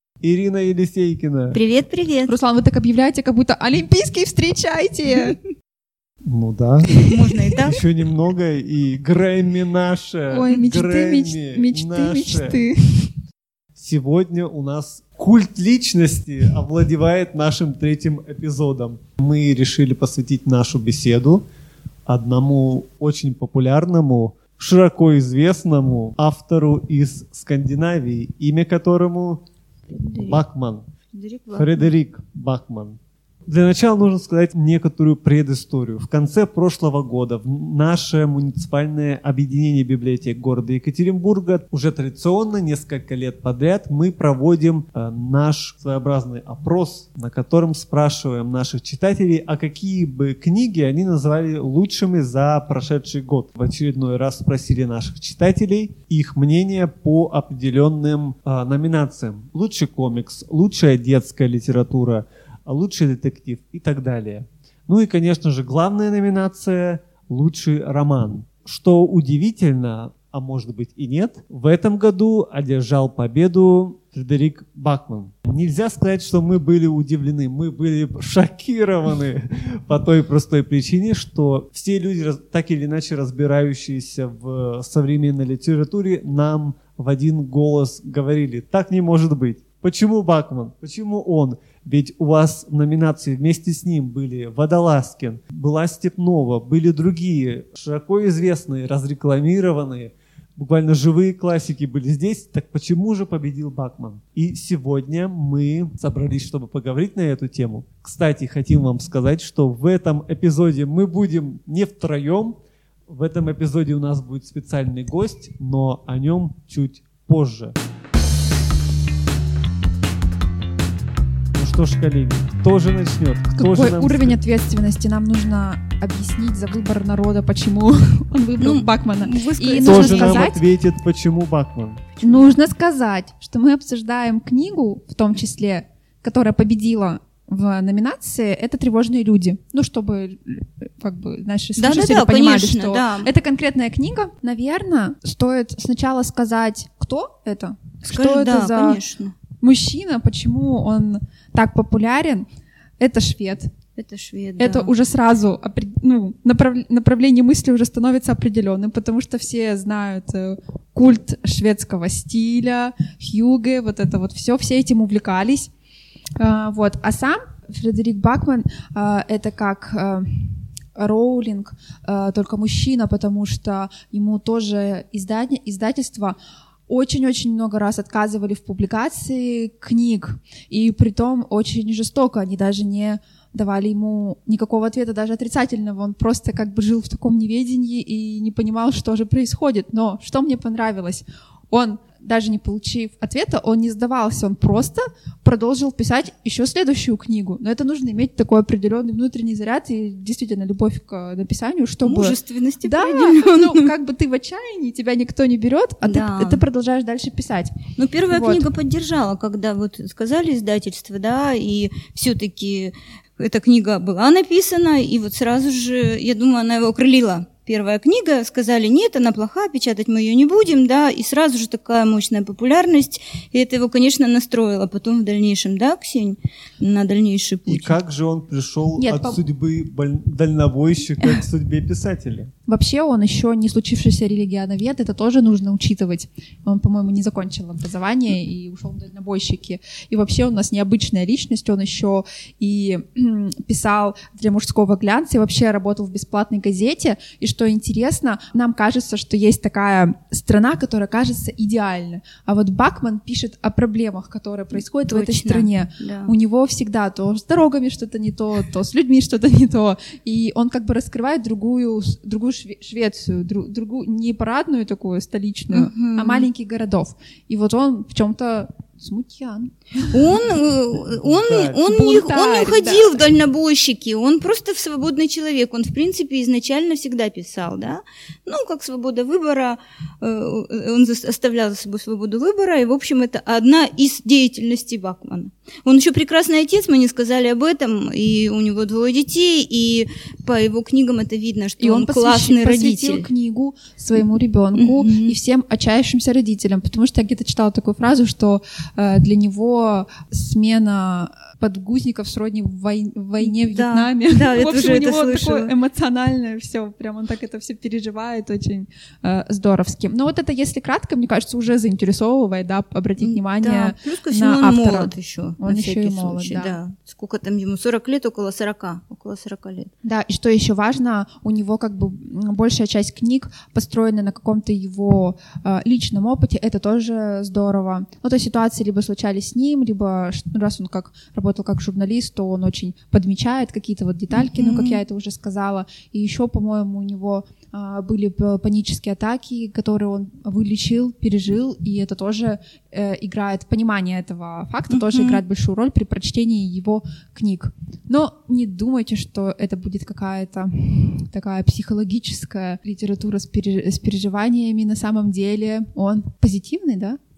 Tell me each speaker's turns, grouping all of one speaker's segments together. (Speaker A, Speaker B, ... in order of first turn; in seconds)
Speaker A: 0.2-1.6, 6.2-12.6, 13.8-21.4, 22.1-29.4, 30.2-30.9, 31.6-117.8, 121.6-124.4, 129.8-132.2, 227.7-232.5, 271.2-271.8
Speaker B: 1.5-2.3, 7.0-7.8, 29.9-30.4, 31.1-31.9, 128.6-130.6, 141.8-143.3, 148.1-149.4, 154.0-154.9, 202.1-203.9, 206.0-206.6, 208.0-228.0, 255.1-256.3, 265.7-266.5, 270.0-293.3, 294.8-295.4, 303.4-305.7, 313.2-319.9, 334.3-335.0, 344.9-345.4
Speaker C: 2.3-5.4, 10.3-13.1, 123.6-130.6, 132.2-149.0, 149.6-152.5, 153.0-153.7, 154.6-165.7, 166.4-176.4, 176.9-207.8, 208.3-208.7, 229.0-229.4, 232.7-270.3, 271.8-273.2, 291.8-316.8, 320.0-357.2